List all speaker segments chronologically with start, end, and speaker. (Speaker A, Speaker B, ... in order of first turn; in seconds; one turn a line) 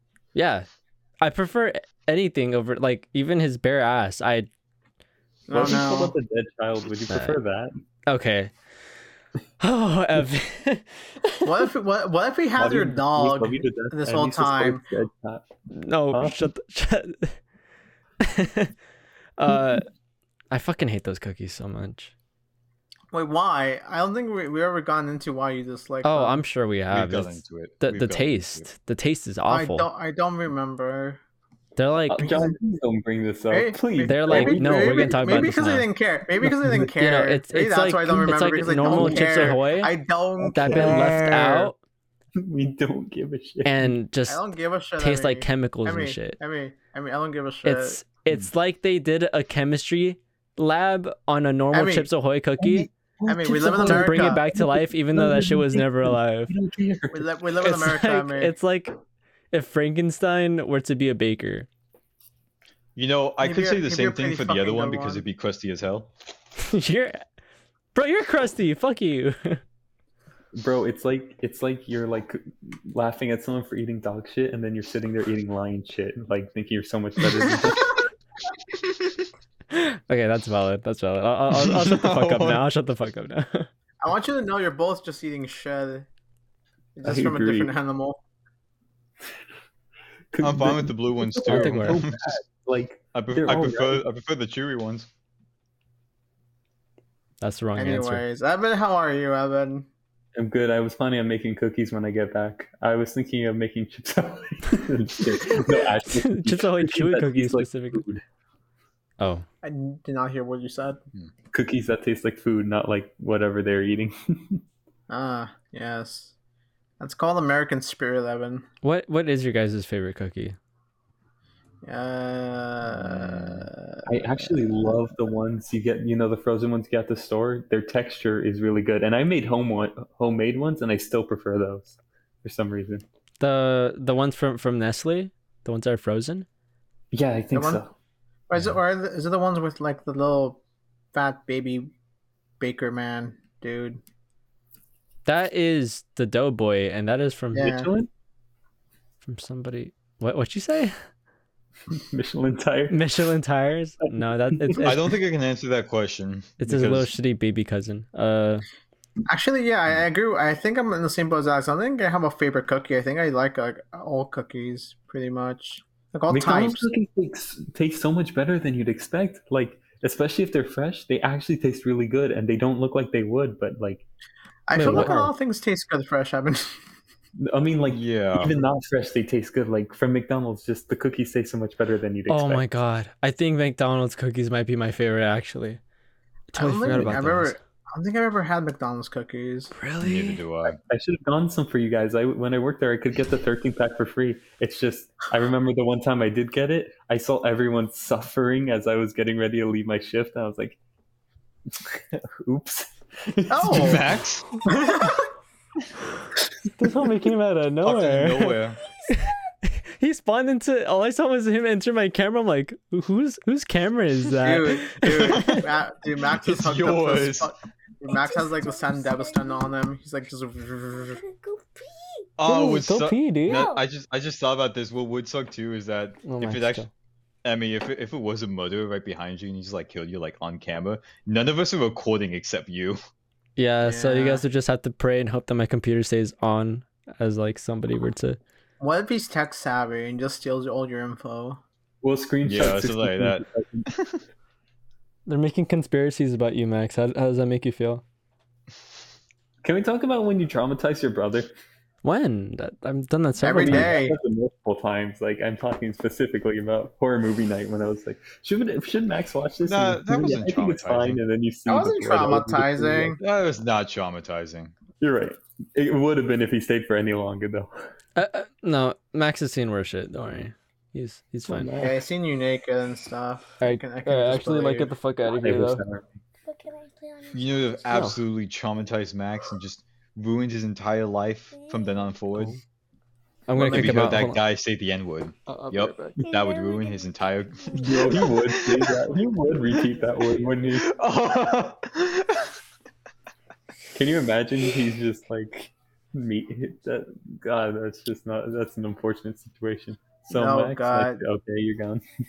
Speaker A: 0.3-0.7
Speaker A: 1.2-4.5
Speaker B: 5.5-6.1
Speaker C: 5.5-7.7
Speaker A: 7.1-7.4
Speaker A: 8.1-8.5
Speaker A: 9.6-11.5
Speaker B: 11.4-14.8
Speaker C: 12.6-15.5
Speaker A: 15.7-17.4
Speaker C: 16.1-16.5
Speaker A: 18.2-18.7
Speaker A: 19.4-19.8
Speaker A: 20.5-22.1
Speaker B: 23.1-26.4
Speaker A: 26.0-29.9
Speaker D: 26.9-28.7
Speaker B: 29.5-31.2
Speaker A: 31.8-32.3
Speaker C: 32.1-35.5
Speaker B: 32.2-32.5
Speaker B: 33.5-41.7
Speaker A: 34.1-35.9
Speaker C: 36.4-36.9
Speaker A: 37.0-39.9
Speaker C: 38.9-39.5
Speaker A: 40.4-41.8
Speaker C: 40.7-41.3
Speaker C: 42.4-43.9
Speaker A: 43.6-44.4
Speaker B: 44.3-48.0
Speaker A: 45.0-46.4
Speaker A: 47.6-52.9
Speaker B: 51.7-52.1
Speaker C: 52.6-57.3
Speaker B: 53.2-54.4
Speaker A: 53.8-56.5
Speaker B: 57.1-58.5
Speaker A: 57.6-58.9
Speaker A: 59.5-61.7
Speaker D: 63.0-66.1
Speaker B: 63.4-65.2
Speaker A: 66.6-67.2
Speaker A: 67.9-69.6
Speaker C: 70.5-78.0
Speaker A: 79.7-83.7
Speaker D: 81.5-82.6
Speaker B: 84.0-86.1
Speaker B: 87.0-88.2
Speaker C: 87.0-87.7
Speaker C: 90.3-94.0
Speaker D: 90.4-92.2
Speaker A: 91.5-92.0
Speaker D: 93.1-95.1
Speaker A: 97.4-98.2
Speaker B: 97.8-99.9
Speaker C: 100.3-108.2
Speaker A: 105.6-108.0
Speaker A: 109.2-109.4
Speaker B: 109.6-111.0
Speaker C: 111.5-114.6
Speaker B: 115.1-116.3
Speaker B: 117.0-118.7
Speaker A: 118.8-120.6
Speaker B: 121.8-124.9
Speaker D: 123.0-123.7
Speaker C: 124.0-133.0
Speaker A: 133.4-136.4
Speaker C: 137.1-137.9
Speaker B: 137.5-137.8
Speaker B: 138.5-140.6
Speaker B: 141.1-141.9
Speaker B: 142.6-144.0
Speaker A: 145.2-147.9
Speaker B: 147.5-147.9
Speaker C: 147.7-148.1
Speaker A: 149.2-150.9
Speaker C: 151.9-153.1
Speaker A: 152.9-155.0
Speaker C: 154.5-154.9
Speaker D: 154.8-157.1
Speaker A: 156.6-158.6
Speaker B: 159.3-166.9
Speaker C: 166.3-174.1
Speaker B: 174.7-176.7
Speaker C: 174.7-175.3
Speaker A: 174.8-175.2
Speaker C: 177.4-182.6
Speaker D: 177.9-178.5
Speaker A: 182.3-185.8
Speaker A: 186.5-187.5
Speaker B: 186.5-189.7
Speaker A: 189.7-190.4
Speaker D: 190.0-190.8
Speaker C: 190.9-200.8
Speaker C: 201.7-204.0
Speaker B: 203.5-204.1
Speaker D: 203.7-204.5
Speaker B: 204.7-205.2
Speaker A: 206.8-208.6
Speaker C: 206.8-207.1
Speaker D: 207.8-208.8
Speaker A: 210.0-215.6
Speaker B: 214.4-221.2
Speaker D: 216.4-217.5
Speaker E: 218.1-219.8
Speaker E: 221.0-222.3
Speaker D: 222.4-226.8
Speaker A: 222.4-223.7
Speaker E: 223.5-223.8
Speaker A: 226.2-226.9
Speaker D: 227.4-233.0
Speaker A: 233.6-238.4
Speaker B: 233.8-234.4
Speaker B: 238.8-241.6
Speaker C: 242.0-243.9
Speaker D: 242.4-244.2
Speaker A: 245.3-248.0
Speaker C: 249.6-251.5
Speaker A: 252.0-253.9
Speaker B: 253.4-254.1
Speaker C: 253.6-263.2
Speaker D: 259.6-261.2
Speaker B: 261.7-263.2
Speaker D: 263.2-264.7
Speaker C: 265.0-267.7
Speaker A: 268.1-271.7
Speaker C: 271.5-272.0
Speaker B: 271.8-274.9
Speaker A: 273.6-275.8
Speaker C: 275.3-276.1
Speaker E: 276.4-278.1
Speaker D: 277.3-282.5
Speaker A: 277.9-278.2
Speaker E: 281.5-282.1
Speaker A: 283.5-284.4
Speaker D: 283.5-288.9
Speaker A: 285.5-286.1
Speaker E: 286.2-288.4
Speaker C: 287.8-290.9
Speaker D: 290.8-292.5
Speaker C: 293.9-302.0
Speaker B: 300.3-301.2